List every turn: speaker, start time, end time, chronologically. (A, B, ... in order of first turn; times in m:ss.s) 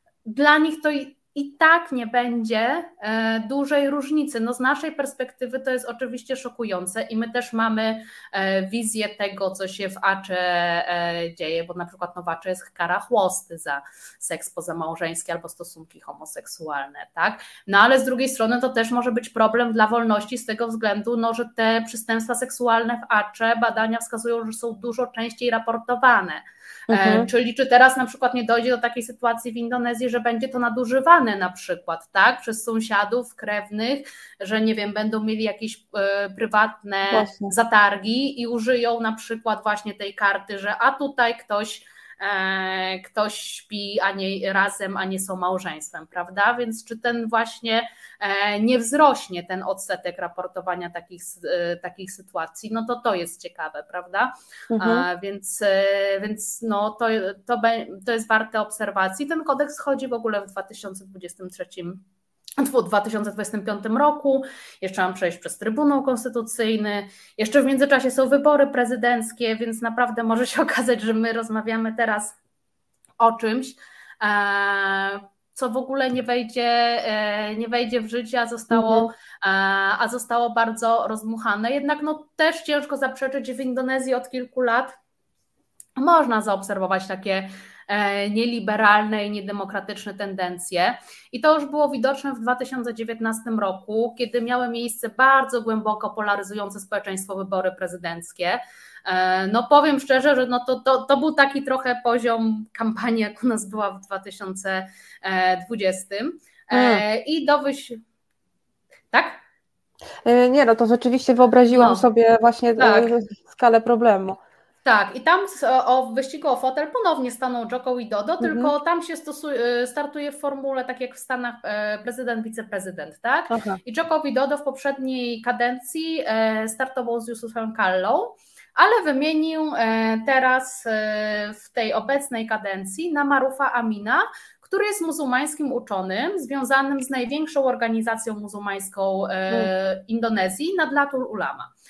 0:00.2-1:02.0 A
0:26.9-0:27.3 B
0:37.1-0:37.5 B
0:54.7-0:55.1 B
1:02.6-1:12.4 A
1:13.2-1:25.0 A
1:18.7-1:19.1 B
1:26.0-1:48.0 A
1:46.7-1:47.0 B
1:49.1-1:49.4 A
1:50.2-1:54.4 B
1:51.7-1:52.0 A
1:52.8-1:53.1 A
1:54.8-2:21.7 A
1:58.4-1:58.7 B
2:03.5-2:03.8 B